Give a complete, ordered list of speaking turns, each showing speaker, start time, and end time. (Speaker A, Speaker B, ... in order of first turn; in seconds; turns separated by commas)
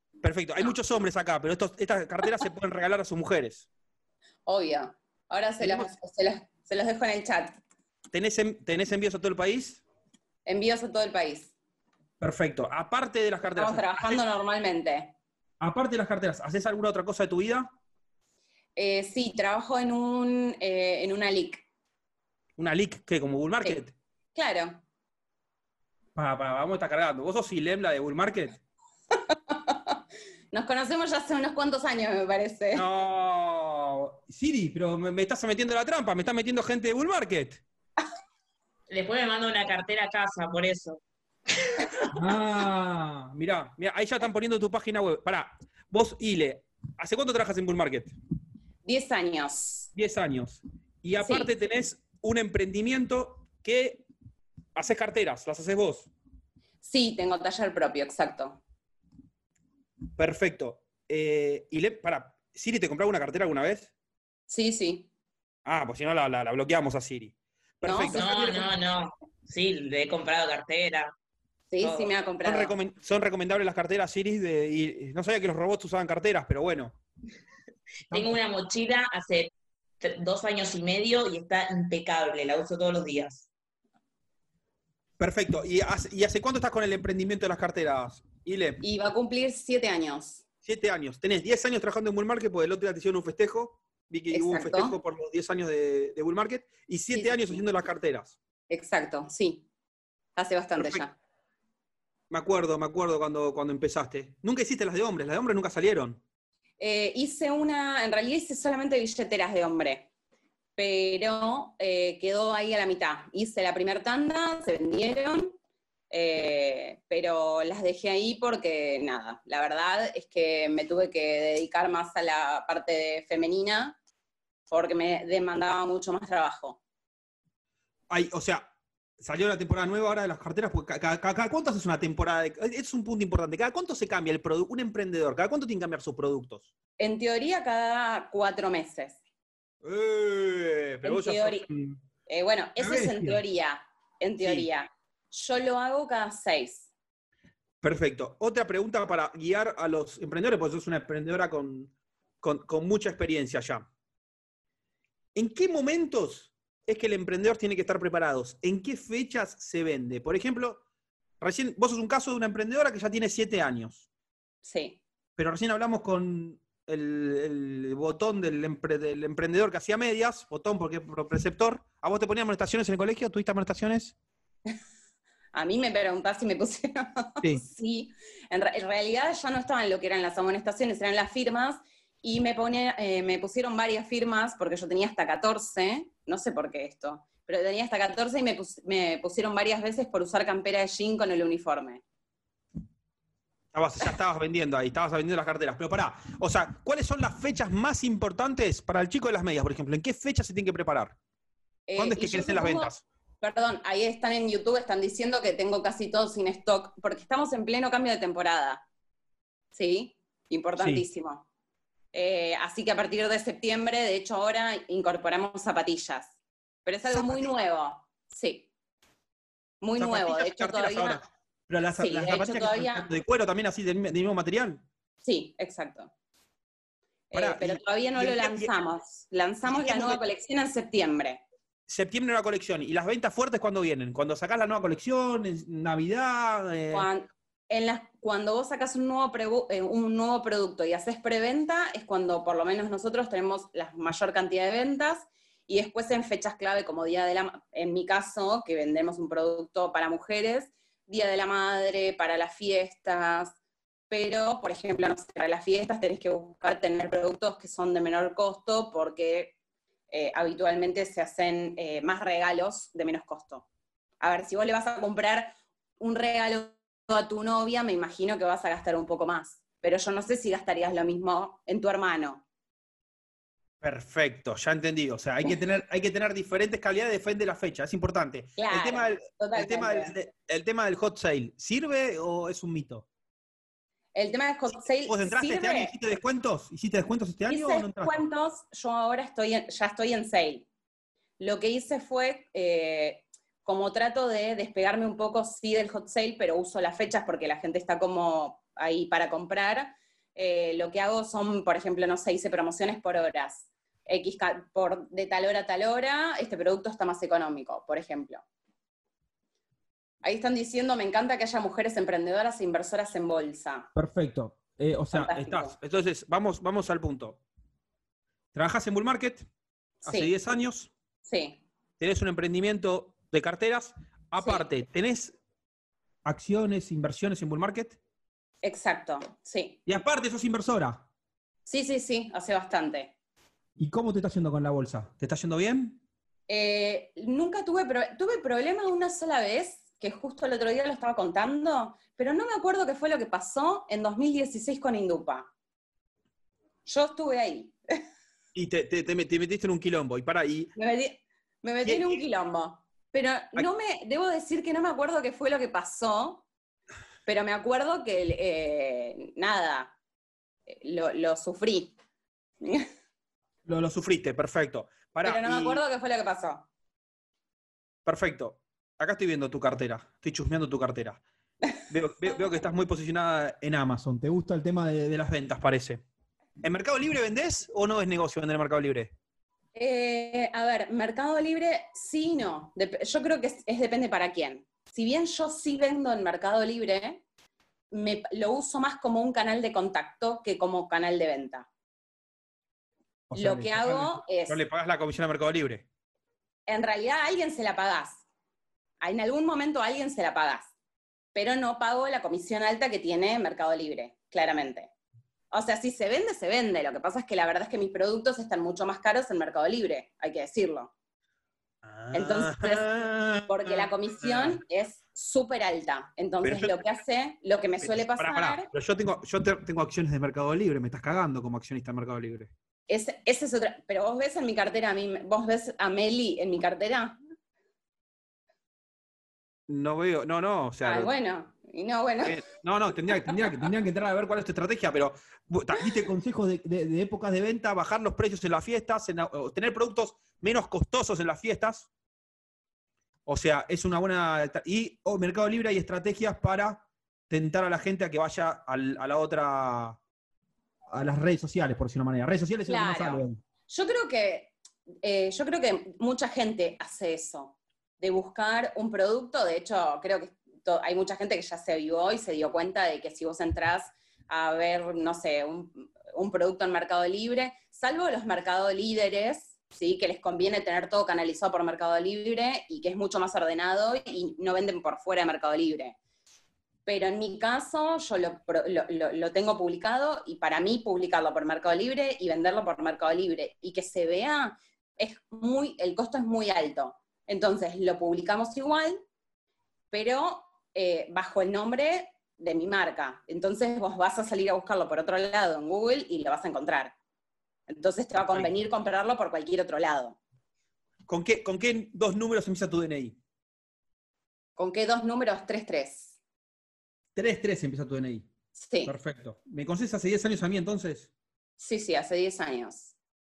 Speaker A: 0.2-3.7, Speaker B: 4.5-7.6, Speaker A: 5.6-5.9, Speaker A: 8.1-9.8, Speaker B: 10.4-11.5, Speaker A: 12.2-14.2, Speaker B: 13.6-15.1, Speaker A: 15.6-17.7, Speaker B: 18.8-21.6, Speaker A: 22.6-23.9, Speaker B: 24.4-24.8, Speaker A: 26.1-28.6, Speaker B: 29.5-29.8, Speaker B: 30.5-32.8, Speaker A: 32.7-37.6, Speaker C: 38.9-41.0, Speaker A: 42.1-48.1, Speaker B: 48.9-49.9, Speaker A: 49.9-54.0, Speaker B: 51.2-51.5, Speaker A: 54.8-56.1, Speaker B: 56.8-58.6, Speaker A: 60.1-63.9, Speaker B: 64.5-65.1, Speaker A: 65.6-68.7, Speaker B: 67.8-68.2, Speaker C: 68.1-71.1, Speaker B: 71.7-72.7, Speaker C: 71.8-72.1, Speaker A: 72.4-77.0, Speaker A: 78.1-78.4, Speaker C: 78.1-83.5, Speaker A: 85.2-88.8, Speaker B: 88.8-90.4, Speaker A: 90.6-98.4, Speaker B: 94.3-95.0, Speaker B: 97.1-97.6, Speaker B: 98.7-99.6, Speaker B: 100.4-101.1, Speaker A: 100.8-101.0, Speaker A: 102.3-106.2, Speaker B: 106.8-110.1, Speaker B: 110.8-115.6, Speaker B: 116.1-124.0, Speaker B: 124.7-126.8, Speaker A: 128.1-128.7, Speaker A: 129.2-136.7, Speaker B: 137.0-139.2, Speaker A: 139.8-142.0, Speaker B: 141.0-141.7, Speaker B: 142.3-146.9, Speaker A: 142.8-143.4, Speaker A: 144.4-144.7, Speaker A: 147.8-153.9, Speaker A: 155.3-160.8, Speaker A: 161.4-164.0, Speaker B: 164.6-165.0, Speaker A: 165.4-174.1, Speaker B: 175.5-192.0, Speaker A: 193.7-201.2, Speaker B: 201.9-208.8, Speaker A: 202.0-203.0, Speaker B: 209.7-211.4, Speaker A: 210.8-211.0, Speaker B: 212.1-216.3, Speaker B: 216.8-218.7, Speaker A: 217.1-217.5, Speaker B: 219.8-221.2, Speaker A: 220.0-224.8, Speaker B: 222.0-223.1, Speaker B: 225.2-226.1, Speaker B: 227.3-231.4, Speaker A: 227.3-228.7, Speaker A: 229.7-230.2, Speaker A: 231.9-237.1, Speaker B: 236.9-253.6, Speaker B: 254.1-259.6, Speaker B: 260.1-263.6, Speaker B: 264.2-272.4, Speaker A: 273.8-283.1, Speaker B: 278.6-280.1, Speaker B: 284.1-285.9, Speaker A: 285.1-288.2, Speaker B: 287.5-290.6, Speaker B: 291.4-308.4, Speaker B: 310.2-313.9, Speaker A: 313.9-317.4, Speaker B: 315.1-315.8, Speaker A: 318.5-319.4, Speaker A: 320.0-320.9, Speaker B: 320.0-320.3, Speaker B: 321.3-321.6, Speaker A: 322.0-325.4, Speaker B: 324.4-324.6, Speaker A: 326.2-328.0, Speaker B: 328.6-329.8, Speaker A: 329.9-331.0, Speaker B: 331.7-333.1, Speaker A: 333.8-336.0, Speaker B: 336.5-345.5, Speaker B: 346.9-347.8, Speaker A: 348.6-350.7, Speaker B: 350.8-356.4, Speaker A: 351.8-352.2, Speaker B: 357.3-359.9, Speaker B: 360.7-361.9, Speaker B: 362.6-362.9, Speaker A: 363.6-365.8, Speaker B: 365.2-366.6, Speaker A: 368.1-371.2, Speaker A: 371.9-376.0, Speaker A: 376.6-379.1, Speaker B: 379.8-387.2, Speaker B: 387.9-391.7, Speaker A: 393.3-395.9, Speaker B: 393.4-394.6, Speaker B: 396.7-398.2, Speaker B: 399.0-400.7, Speaker B: 401.4-404.9, Speaker B: 405.5-410.9, Speaker A: 411.8-414.6, Speaker B: 412.1-412.9, Speaker B: 413.4-418.7, Speaker A: 416.4-416.8, Speaker A: 417.8-422.5, Speaker B: 422.9-427.2, Speaker A: 429.7-431.1, Speaker B: 430.8-432.4, Speaker A: 432.2-441.9, Speaker A: 443.3-450.0, Speaker A: 450.9-453.4, Speaker B: 452.7-454.5, Speaker B: 455.0-475.9, Speaker B: 476.9-489.0, Speaker B: 489.9-496.9, Speaker B: 497.7-500.2, Speaker A: 498.3-498.5, Speaker A: 501.1-503.1, Speaker B: 504.6-506.1, Speaker A: 507.1-508.3, Speaker B: 508.6-508.9, Speaker A: 508.9-511.1, Speaker B: 511.6-512.9